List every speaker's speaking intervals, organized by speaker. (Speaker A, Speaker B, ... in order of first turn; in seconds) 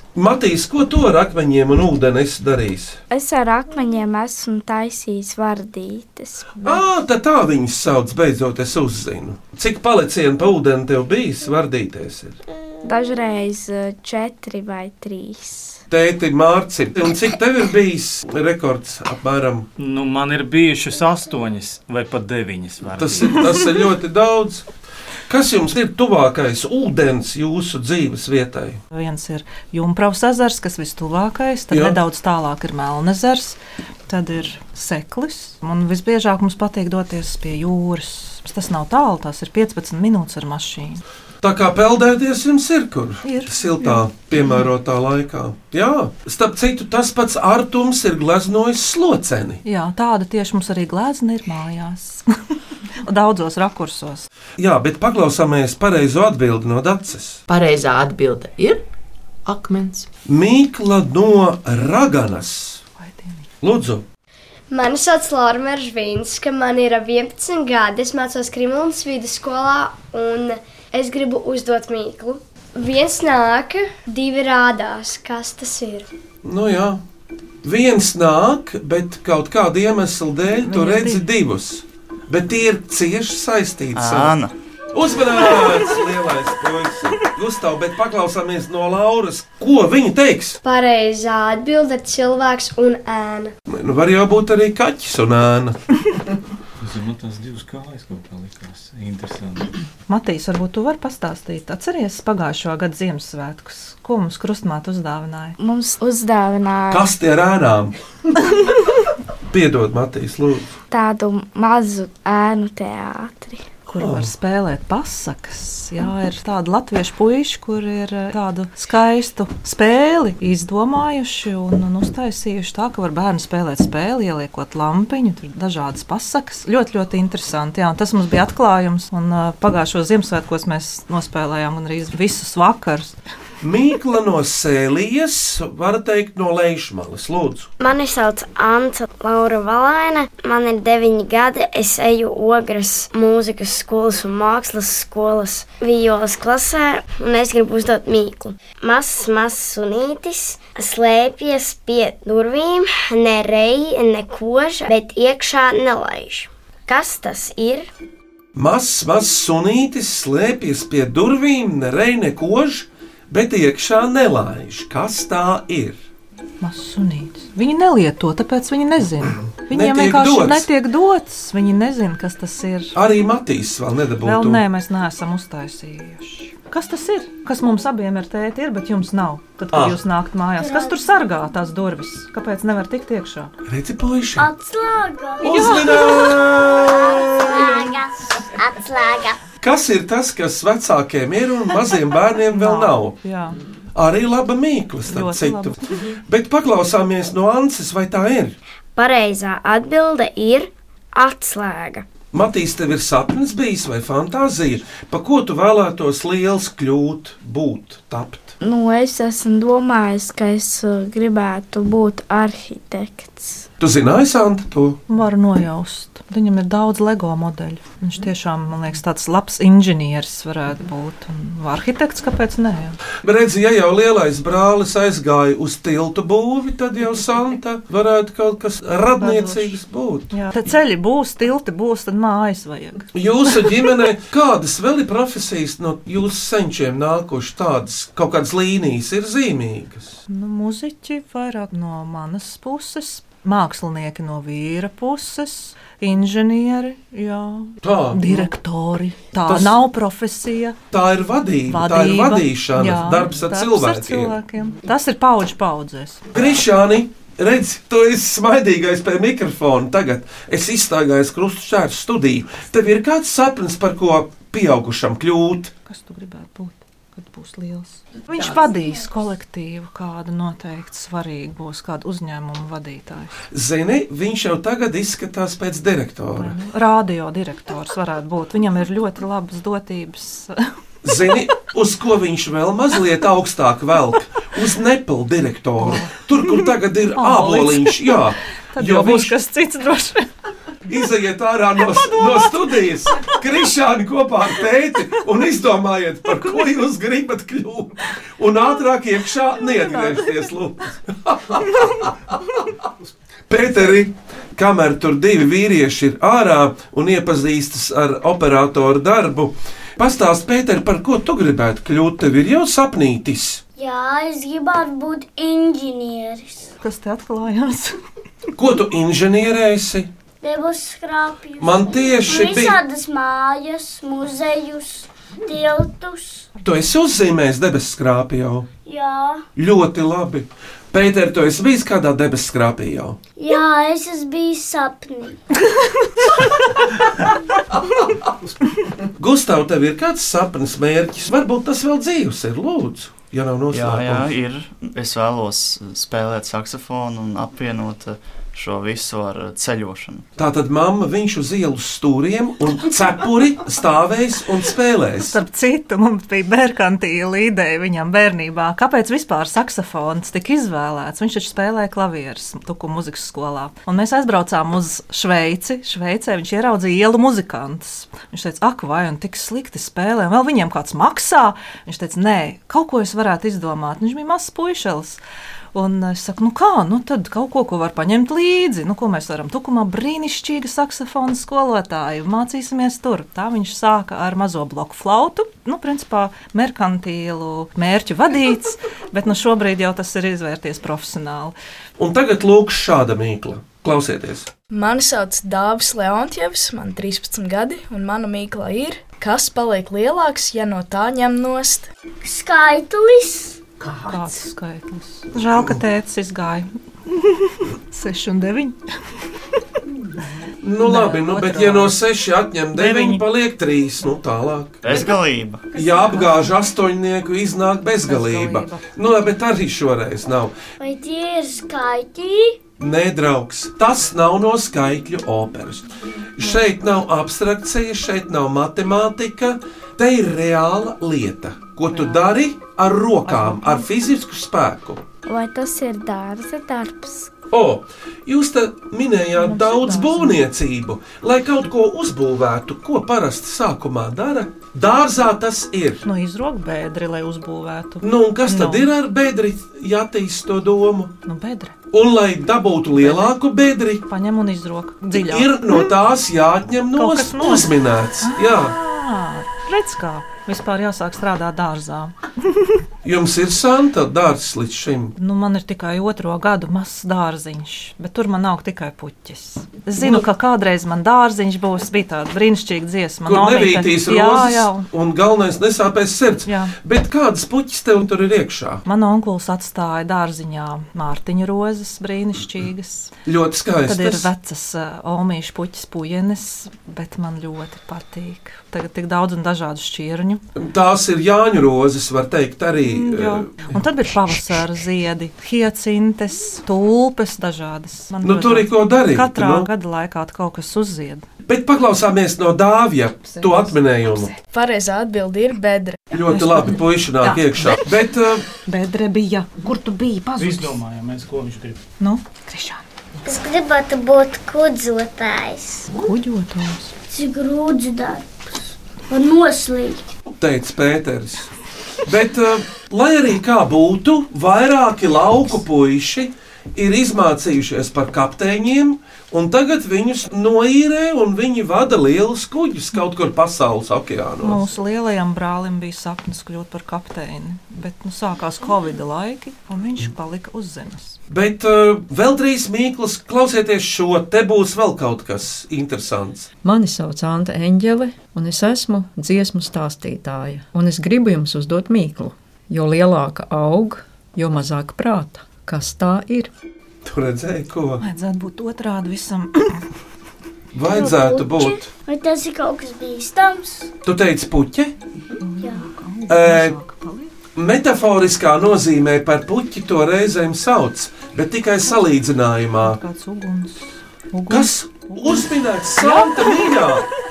Speaker A: 0.1-3.0, 6.6-12.4, 15.9-19.7, 23.0-24.6, 25.3-28.8, 31.7-32.0, 41.4-49.6, 54.6-57.4, 60.3-62.8, 63.6-64.0, 76.4-77.0, 77.6-84.4, 84.9-90.6, 93.7-95.8, 106.9-107.9, 109.5-110.7, 114.0-114.3, 133.6-137.7, 158.5-166.0, 169.4-170.7, 172.9-174.6, 179.7-180.0, 183.7-184.5, 185.4-187.9, 189.6-193.2, 193.9-198.6, 202.3-208.6, 213.8-215.0, 223.2-230.3, 233.1-240.2, 247.8-248.5, 249.5-249.8, 250.9-254.3, 256.3-265.7, 273.5-276.6, 281.0-289.3, 290.9-302.1, 303.5-313.6, 318.6-320.1, 321.6-322.8, 326.6-328.7, 329.6-333.2, 339.2-344.3, 350.4-355.4, 392.0-394.5, 410.6-414.9, 415.7-420.5, 422.8-435.0, 437.5-446.0, 448.0-451.1, 451.9-454.0, 455.1-458.8, 463.0-465.1, 473.2-478.8, 483.2-484.3, 490.6-493.8, 498.2-499.7, 501.4-504.3, 506.1-508.4, 520.4-521.5, 522.0-534.6, 541.3-546.5, 557.0-558.0, 560.7-561.9, 564.0-564.9, 566.3-566.8, 567.5-573.0, 574.5-577.1
Speaker B: 3.1-6.6, 12.8-15.8, 105.6-107.1, 110.9-113.6, 208.6-213.6, 435.2-437.3
Speaker C: 19.8-23.5, 96.8-99.7, 510.4-511.8
Speaker D: 28.9-41.0, 43.2-44.6, 49.6-52.4, 53.0-54.3, 63.0-63.5, 80.6-81.3, 100.1-105.6, 113.9-133.2, 166.6-172.9, 174.2-183.5, 192.5-193.6, 195.1-195.8, 215.1-223.0, 229.2-229.8, 230.3-233.9, 240.3-250.8, 251.7-256.6, 265.9-273.3, 276.4-280.7, 285.8-288.2, 288.7-290.3, 292.1-293.3, 299.7-300.4, 316.8-318.0, 355.2-375.2, 375.7-391.5, 404.1-408.8, 410.8-412.0, 412.7-413.2, 415.8-416.5, 418.0-418.9, 431.9-432.3, 433.2-433.9, 439.4-440.4, 446.0-448.9, 451.2-451.7, 452.9-453.4, 454.1-455.9, 456.9-457.7, 458.2-462.7, 465.1-474.9, 476.4-476.7, 478.8-483.1, 483.9-490.4, 492.8-501.2, 503.3-504.3, 506.3-507.8, 508.6-510.8, 512.0-512.8, 515.9-516.9, 534.4-541.2, 558.0-559.8, 565.4-567.3, 572.8-577.0
Speaker E: 57.5-58.8, 59.4-60.1
Speaker F: 64.7-76.1, 90.6-93.5
Speaker G: 83.9-84.5, 343.7-350.3, 414.8-415.7
Speaker H: 137.8-157.9, 198.9-202.1
Speaker I: 180.6-181.1, 184.4-189.4, 313.8-316.7, 320.4-326.5, 328.8-329.4, 333.4-335.4, 402.2-403.6, 420.8-422.6, 513.2-515.9, 517.1-520.0, 560.8-563.9, 565.6-565.9
Speaker J: 394.7-401.9, 504.5-506.0
Speaker K: 546.6-556.5